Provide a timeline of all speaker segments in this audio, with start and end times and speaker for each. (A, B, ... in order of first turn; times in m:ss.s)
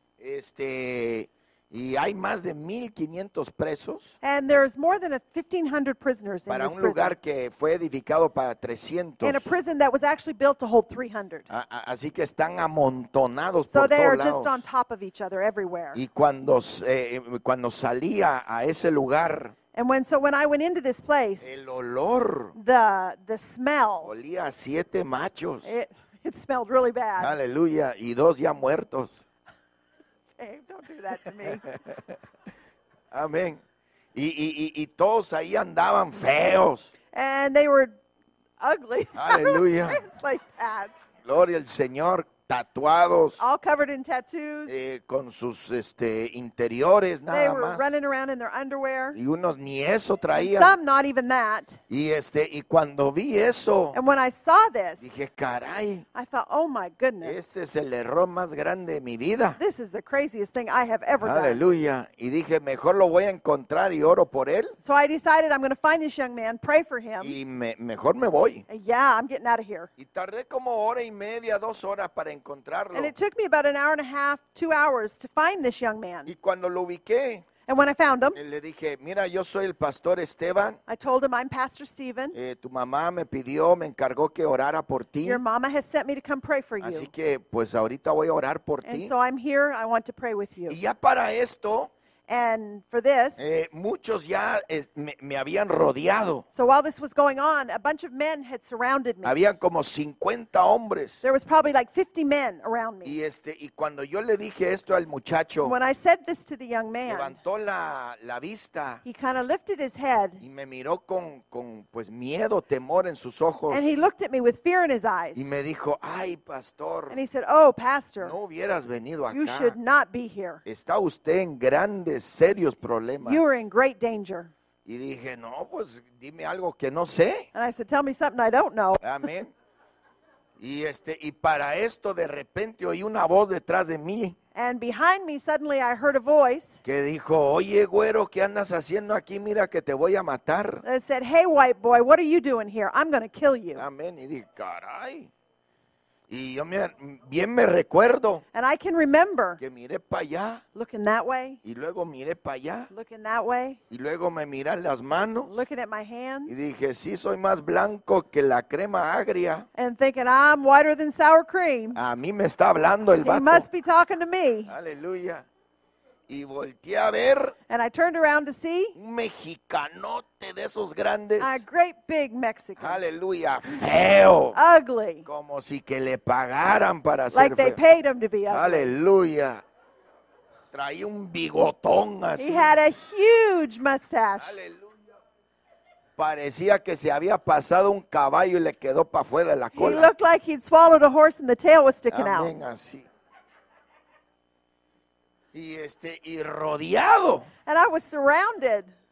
0:00.2-0:04.1 A
0:04.2-0:07.2 B
0:06.5-0:09.5 A
0:09.2-0:11.5 B
0:11.5-0:14.6 A
0:13.7-0:16.0 B
0:15.9-0:19.6 A
0:19.7-0:21.5 B
0:21.4-0:22.6 A
0:22.6-0:24.1 B
0:24.0-0:25.8 A
0:25.6-0:27.3 B
0:27.2-0:29.2 A
0:30.4-0:31.7 B
0:31.4-0:32.2 A
0:33.1-0:33.6 A
0:34.1-0:36.9 A
0:37.1-0:38.0 B
0:38.6-0:41.0 B
0:39.2-0:40.0 A
0:41.2-0:43.4 A
0:43.4-0:44.8 B
0:44.7-0:47.9 A
0:47.3-0:49.2 B
0:49.1-0:50.8 A
0:50.4-0:51.8 B
0:51.9-0:54.0 A
0:53.9-0:55.1 B
0:55.0-0:56.1 A
0:56.1-0:57.4 B
0:57.2-0:59.6 A
0:59.6-1:01.6 B
1:01.2-1:04.8 A
1:04.8-1:07.4 B
1:07.2-1:08.7 A
1:08.7-1:09.9 B
1:10.0-1:13.1 A
1:12.9-1:16.3 B
1:16.3-1:17.5 A
1:17.7-1:18.4 B
1:18.4-1:20.8 A
1:20.9-1:22.4 B
1:22.3-1:25.4 A
1:25.2-1:27.1 B
1:26.8-1:29.1 A
1:28.8-1:30.8 B
1:30.7-1:31.9 A
1:32.3-1:33.4 B
1:33.4-1:36.4 A
1:36.5-1:39.4 B
1:39.2-1:41.2 A
1:41.2-1:43.2 B
1:43.0-1:45.8 A
1:45.6-1:47.4 B
1:47.1-1:49.0 A
1:49.0-1:50.4 B
1:50.4-1:53.9 A
1:53.7-1:55.5 B
1:55.4-1:57.2 A
1:57.1-1:58.4 B
1:58.2-1:59.8 A
1:59.3-2:00.6 B
2:00.6-2:03.4 A
2:03.2-2:04.5 B
2:04.8-2:07.5 A
2:07.5-2:09.0 B
2:09.0-2:09.5 A
2:10.6-2:14.4 A
2:14.6-2:16.8 B
2:16.8-2:20.8 A
2:20.8-2:23.8 B
2:23.8-2:25.3 A
2:26.3-2:28.4 A
2:28.5-2:29.6 B
2:29.6-2:30.6 A
2:30.8-2:31.6 B
2:31.6-2:32.9 A
2:32.9-2:33.8 B
2:33.9-2:35.6 A
2:35.4-2:36.6 B
2:36.5-2:39.7 A
2:39.8-2:42.0 B
2:41.9-2:43.7 A
2:43.2-2:44.7 B
2:44.7-2:45.5 A
2:46.3-2:47.6 A
2:47.7-2:49.0 B
2:49.0-2:51.6 A
2:51.4-2:53.0 B
2:52.8-2:54.6 A
2:54.5-2:55.2 B
2:55.2-2:57.8 A
2:57.3-2:58.9 B
2:58.5-2:59.6 A
3:00.7-3:02.7 A
3:02.4-3:04.6 B
3:04.4-3:05.0 A
3:06.2-3:10.1 A
3:09.7-3:12.5 B
3:12.1-3:13.1 A
3:15.5-3:17.5 A
3:17.7-3:18.9 B